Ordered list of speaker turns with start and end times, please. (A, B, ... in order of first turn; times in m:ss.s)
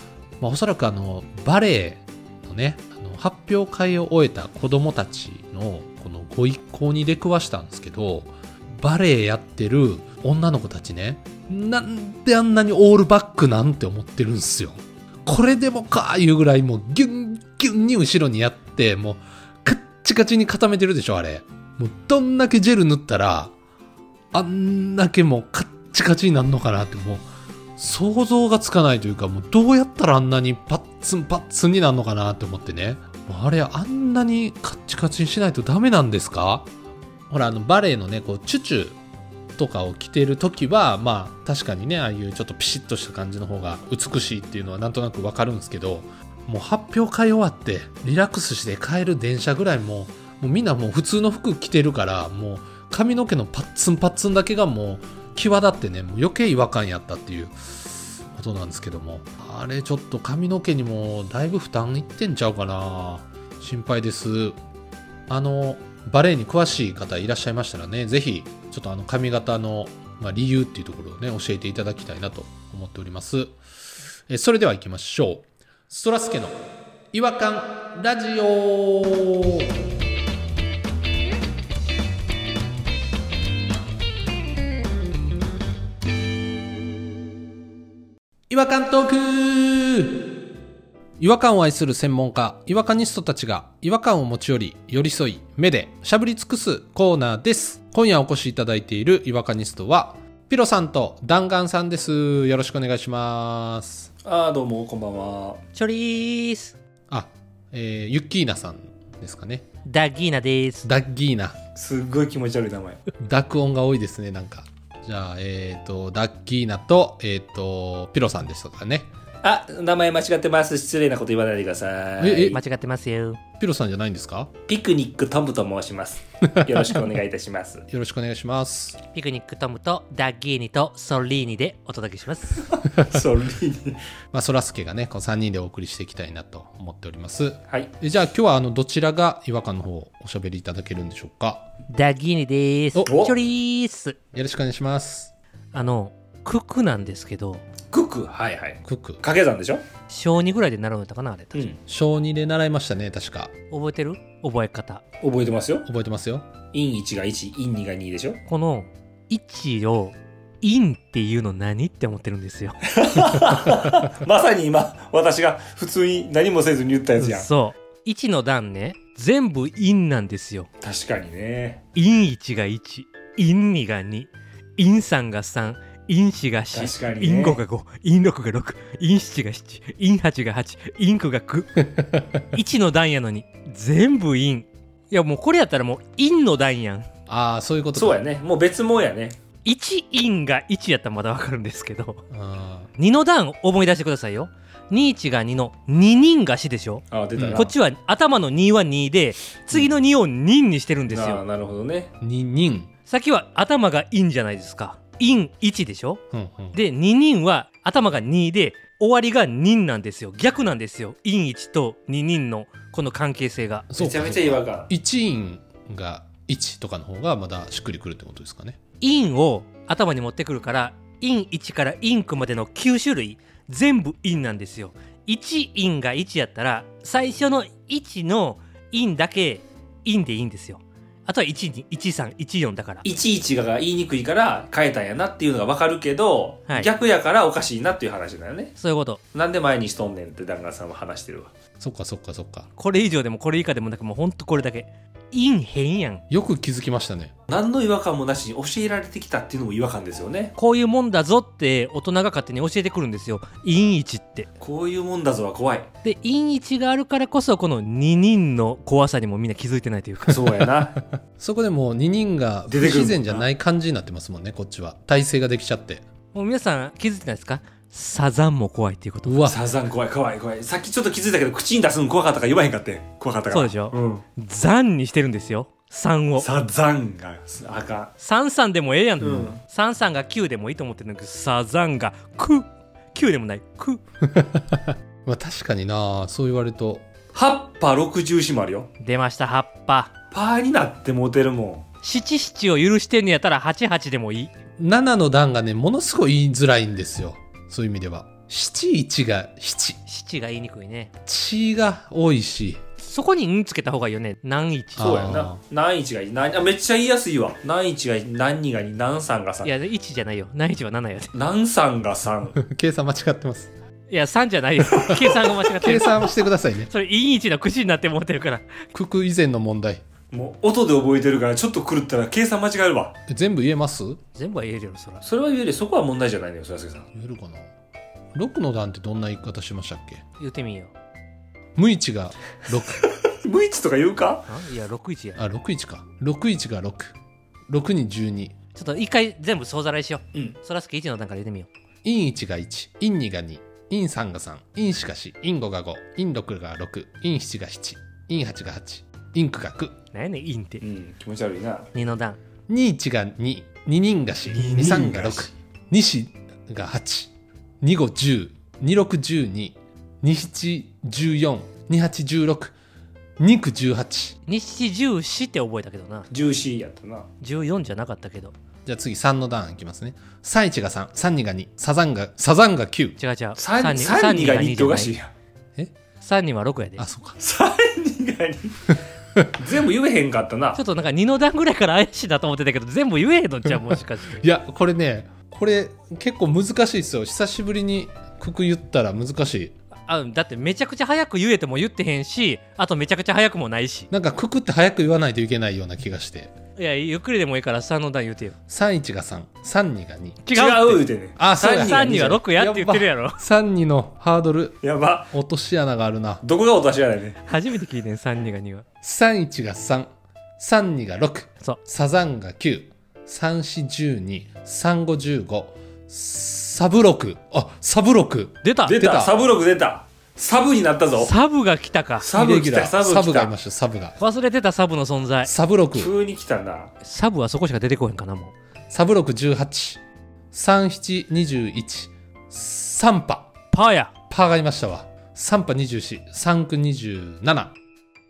0:00.4-0:23.5 A
0:24.3-0:27.2 A
0:27.8-0:36.7 A
0:37.3-0:39.0 A
0:39.6-1:04.6 A
1:05.3-1:13.6 A
1:14.3-1:16.6 A
1:17.1-1:19.7 A
1:28.5-1:30.2 A
1:31.2-1:44.1 A
1:44.2-1:45.6 B
1:45.7-1:46.8 C
1:47.1-1:49.6 A
1:49.8-1:50.9 C
1:50.8-1:51.6 A
1:51.7-1:53.0 B
1:53.2-1:59.1 A
1:59.4-2:02.6 B
2:02.2-2:02.6 A
2:02.5-2:03.4 C
2:03.6-2:04.5 A
2:04.7-2:07.8 B
2:06.4-2:07.0 A
2:07.9-2:09.0 A
2:09.1-2:12.7 C
2:12.7-2:14.0 B
2:14.3-2:21.7 A
2:21.9-2:24.2 C
2:23.0-2:23.4 B
2:24.3-2:25.3 A
2:25.7-2:27.6 C
2:27.9-2:29.8 B
2:28.8-2:29.2 A
2:30.1-2:31.6 C
2:31.5-2:31.8 B
2:31.9-2:33.5 A
2:33.7-2:35.0 C
2:35.2-2:35.9 B
2:35.8-2:36.6 A
2:36.7-2:38.4 B
2:38.5-2:42.8 C
2:42.9-2:47.5 B
2:47.2-2:50.7 C
2:50.8-2:51.8 B
2:51.9-3:01.9 C
2:56.7-2:57.6 B
3:02.4-3:07.1 C
3:07.3-3:08.2 A
3:07.9-3:09.4 B
3:09.6-3:12.2 C
3:12.3-3:12.9 A
3:13.0-3:21.4 C
3:17.1-3:17.7 B
3:17.4-3:17.6 A
3:21.1-3:22.1 B
3:22.2-3:22.9 A
3:23.1-3:26.2 C
3:26.3-3:26.8 A
3:26.7-3:33.9 C
3:33.9-3:38.8 A
3:34.0-3:34.9 B
3:39.0-3:53.0 C
3:53.0-3:58.7 B
3:58.8-3:59.2 C
3:59.3-4:01.5 B
4:01.8-4:02.7 A
4:02.8-4:06.2 C
4:06.3-4:07.3 A
4:07.5-4:10.5 B
4:10.6-4:14.5 C
4:14.6-4:15.9 B
4:16.0-4:20.4 C
4:20.3-4:21.0 B
4:21.0-4:26.0 A
4:22.7-4:23.5 B
4:26.3-4:29.5 C
4:29.2-4:29.6 A
4:29.4-4:34.2 B
4:33.5-4:36.5 C
4:36.4-4:38.1 B
4:38.2-4:44.0 C
4:39.2-4:39.6 B
4:44.3-4:47.0 A
4:47.3-4:48.9 B
4:49.0-4:50.1 C
4:50.3-4:51.8 B
4:52.0-4:54.5 C
4:54.8-5:00.0 A
5:00.0-5:01.1 C
5:01.2-5:02.8 A
5:03.0-5:05.2 C
5:05.0-5:05.6 A
5:05.0-5:09.7 B
5:09.6-5:11.3 C
5:11.3-5:12.6 B
5:12.5-5:13.7 A
5:14.1-5:16.3 C
5:14.9-5:16.9 A
5:16.9-5:18.8 C
5:18.9-5:20.0 A
5:20.3-5:23.1 B
5:23.3-5:24.2 A
5:24.3-5:25.2 C
5:25.2-5:27.0 B
5:27.1-5:27.7 A
5:28.3-5:30.2 A
5:30.4-5:30.9 C
5:31.8-5:33.0 A
5:33.0-5:34.5 B
5:34.5-5:35.4 C
5:35.4-5:37.1 A
5:37.7-5:38.6 A
5:38.7-5:41.7 C
5:42.0-5:49.9 A
5:50.1-5:50.8 C
5:50.8-5:51.9 B
5:51.9-5:52.4 C
5:52.7-6:02.7 A
5:54.5-5:55.5 B
6:03.4-6:04.4 A
6:04.4-6:06.3 C
6:06.3-6:07.3 B
6:07.4-6:08.5 C
6:08.8-6:13.2 A
6:13.2-6:15.1 C
6:13.6-6:15.3 B
6:16.2-6:17.0 C
6:17.0-6:17.4 A
6:17.4-6:18.9 B
6:19.6-6:20.8 B
6:20.7-6:24.4 C
6:24.4-6:29.7 A
6:30.1-6:34.1 C
6:34.1-6:36.5 A
6:36.8-6:38.6 C
6:38.7-6:40.6 A
6:40.5-6:43.4 C
6:40.5-6:42.4 B
6:41.4-6:44.8 A
6:44.8-6:45.3 B
6:45.3-6:46.4 A
6:46.4-6:47.4 B
6:47.4-6:48.8 C
6:49.0-6:59.3 A
6:58.6-6:59.1 C
6:58.8-7:01.3 B
7:01.2-7:02.3 C
7:02.2-7:03.5 B
7:02.3-7:04.2 A
7:04.2-7:05.5 C
7:05.4-7:06.1 A
7:05.9-7:06.9 B
7:07.0-7:08.5 C
7:08.9-7:13.5 A
7:13.7-7:14.1 C
7:14.3-7:17.7 A